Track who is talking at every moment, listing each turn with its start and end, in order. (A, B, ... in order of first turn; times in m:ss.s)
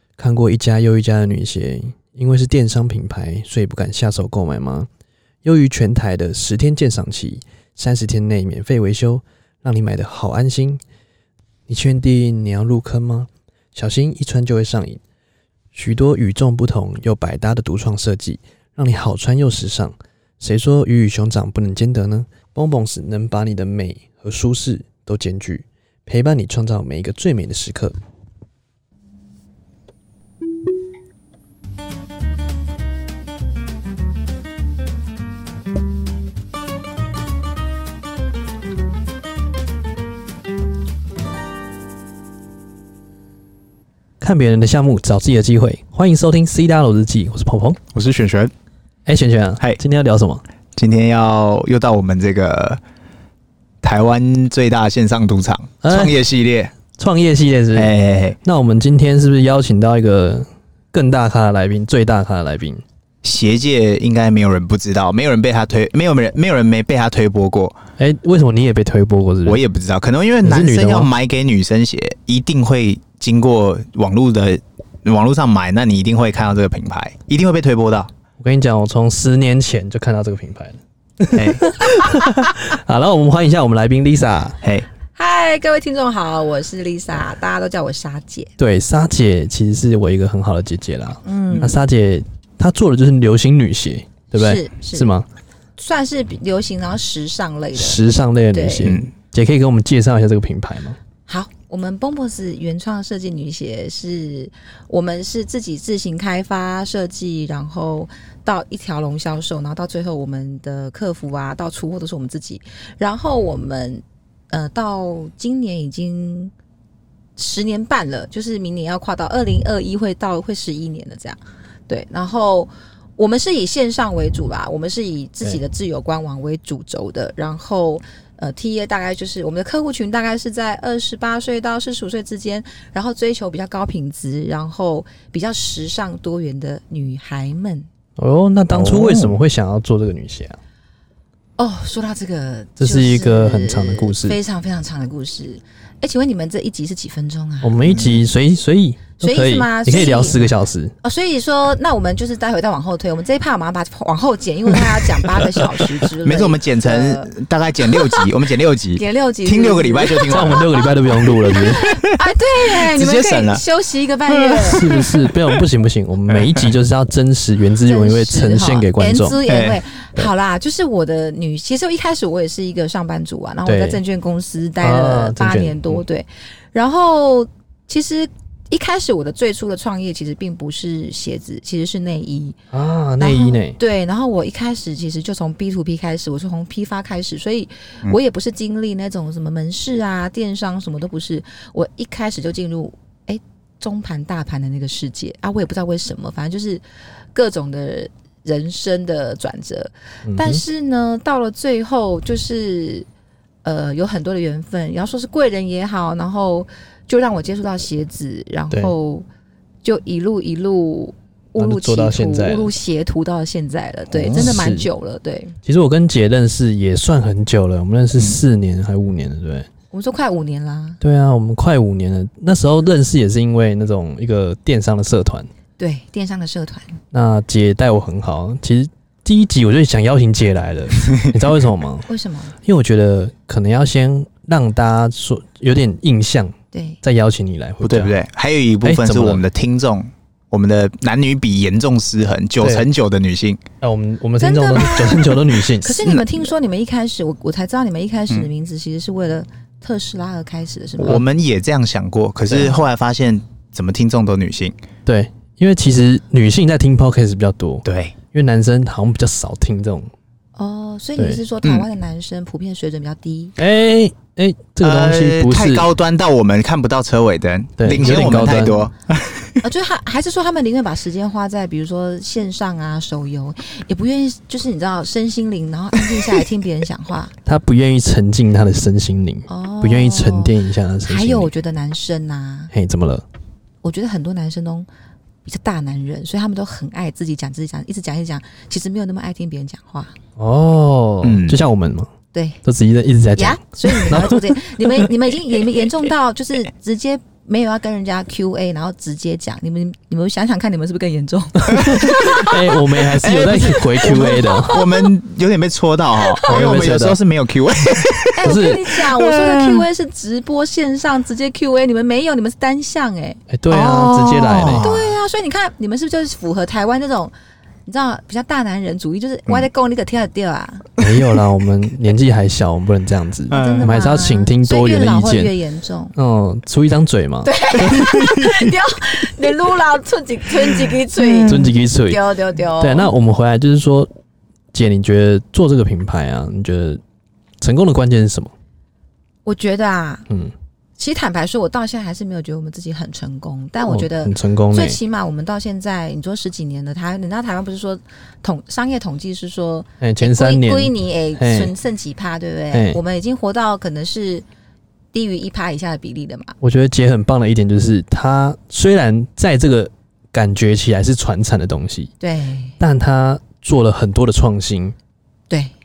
0:00.2-0:04.9 A
0:05.4-0:10.8 A
0:11.7-0:15.0 A
0:15.7-0:28.0 A
0:44.2-0:47.8 A
0:47.9-0:48.5 B
0:49.1-0:50.4 A
0:50.8-0:52.8 B
0:53.8-0:56.7 B
0:55.8-0:56.2 A
0:56.9-1:02.8 A
0:57.7-0:58.4 B
1:03.2-1:07.8 B
1:08.0-1:09.6 A
1:09.4-1:18.1 B
1:10.4-1:11.1 A
1:18.4-1:24.6 A
1:21.3-1:21.7 B
1:24.6-1:24.9 B
1:25.2-1:28.5 C
1:28.6-1:35.3 A
1:31.2-1:31.8 C
1:34.4-1:35.1 C
1:35.8-1:38.0 C
1:37.8-1:41.0 A
1:38.5-1:39.0 C
1:38.8-1:39.1 B
1:41.3-1:56.5 C
1:57.4-2:17.9 C
2:18.2-2:20.6 A
2:18.7-2:19.4 B
2:21.6-2:28.1 C
2:22.8-2:24.4 A
2:27.6-2:30.9 A
2:27.9-2:28.2 B
2:29.2-2:30.5 C
2:31.0-2:37.3 C
2:36.2-2:40.7 B
2:37.9-2:38.3 C
2:39.0-2:40.8 C
2:40.3-2:41.9 A
2:41.6-2:44.9 C
2:41.8-2:42.1 B
2:42.6-2:43.6 B
2:44.4-2:45.2 B
2:44.7-2:49.4 A
2:47.8-3:02.6 C
2:49.5-2:49.8 B
2:53.7-2:54.0 A
2:54.8-2:56.0 A
3:02.7-3:03.8 A
3:03.2-3:16.8 C
3:17.3-3:23.1 C
3:20.2-3:20.6 A
3:23.6-3:29.3 C
3:29.8-3:35.6 C
3:31.6-3:32.7 A
3:34.1-3:34.5 B
3:34.4-3:34.9 A
3:35.6-3:39.7 A
3:39.9-3:41.0 C
3:41.0-3:45.5 A
3:45.8-3:47.0 C
3:47.1-3:52.1 A
3:52.1-3:52.6 C
3:52.6-3:58.2 A
3:56.7-3:57.0 C
3:57.8-4:03.6 B
3:58.8-3:59.4 A
4:02.6-4:02.9 A
4:03.8-4:06.0 A
4:04.4-4:11.2 C
4:11.0-4:14.8 B
4:15.1-4:20.1 A
4:17.8-4:18.2 B
4:20.6-4:23.6 C
4:21.2-4:21.4 A
4:23.6-4:25.9 A
4:24.8-4:29.6 B
4:27.8-4:28.9 A
4:29.6-4:37.3 C
4:37.5-4:41.5 A
4:39.5-4:40.5 C
4:41.0-4:42.7 C
4:42.7-4:43.2 A
4:43.8-4:44.9 C
4:45.4-4:50.2 C
4:50.4-4:52.1 A
4:51.2-4:51.6 B
4:52.3-4:52.6 C
4:52.6-4:55.1 A
4:53.4-5:05.1 C
5:01.6-5:04.8 A
5:01.9-5:02.4 B
5:03.2-5:09.9 B
5:06.2-5:06.6 C
5:06.5-5:07.2 A
5:08.3-5:13.4 C
5:08.4-5:08.8 A
5:13.5-5:14.8 A
5:13.7-5:15.2 B
5:14.7-5:17.3 C
5:17.9-5:20.9 C
5:21.0-5:25.5 A
5:23.5-5:23.9 B
5:23.5-5:26.2 C
5:26.2-5:28.1 A
5:27.4-5:33.1 C
5:28.2-5:28.5 B
5:31.2-5:31.7 B
5:31.5-5:32.2 A
5:32.8-5:34.1 A
5:34.7-5:37.0 A
5:37.6-5:38.5 A
5:39.4-5:40.3 C
5:41.0-5:54.4 C
5:43.8-5:45.0 A
5:50.0-5:51.7 A
5:52.7-5:53.0 A
5:55.1-5:56.6 C
5:56.6-6:02.1 A
6:02.2-6:02.8 C
6:02.8-6:05.0 A